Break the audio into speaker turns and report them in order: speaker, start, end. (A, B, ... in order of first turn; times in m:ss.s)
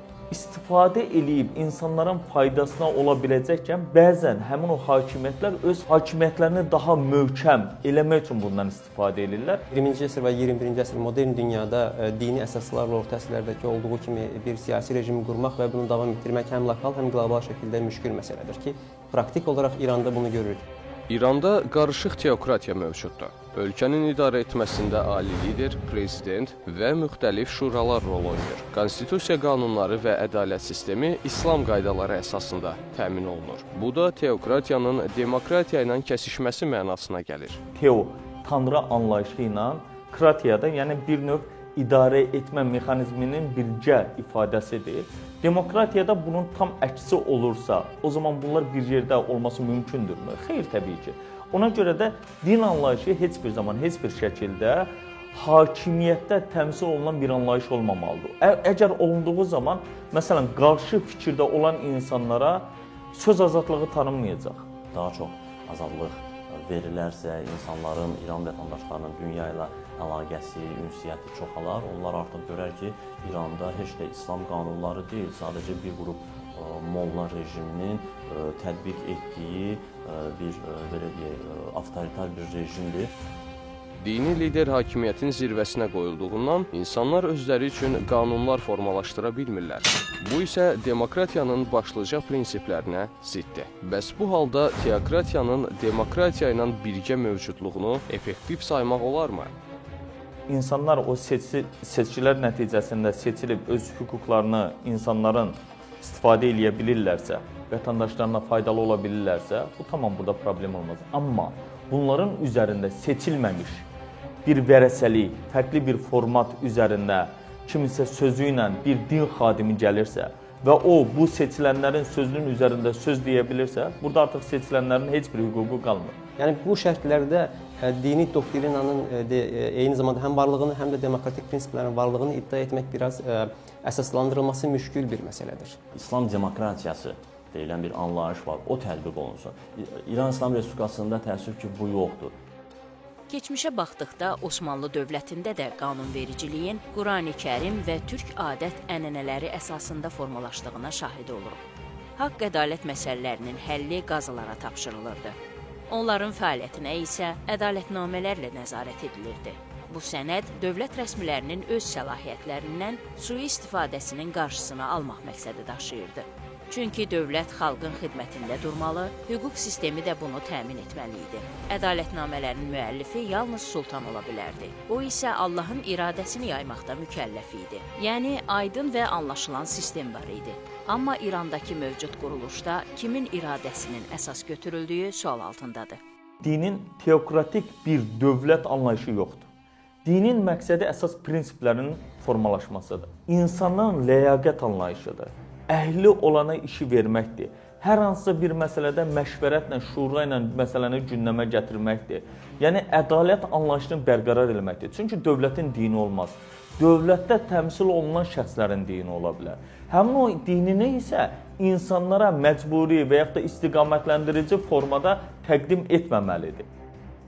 0:00.3-0:09.6 A
0:09.7-0:20.7 B
0:21.1-0:37.6 C
0:37.8-1:04.6 A
1:04.9-1:23.1 D
1:24.0-1:39.5 C
1:40.5-1:53.9 A
1:54.4-2:06.2 A
2:06.4-2:15.8 B
2:15.9-2:22.3 D
2:23.3-2:31.6 E
2:32.2-2:35.4 E
2:35.9-3:06.0 E
3:06.4-3:09.5 A
3:10.0-3:36.7 A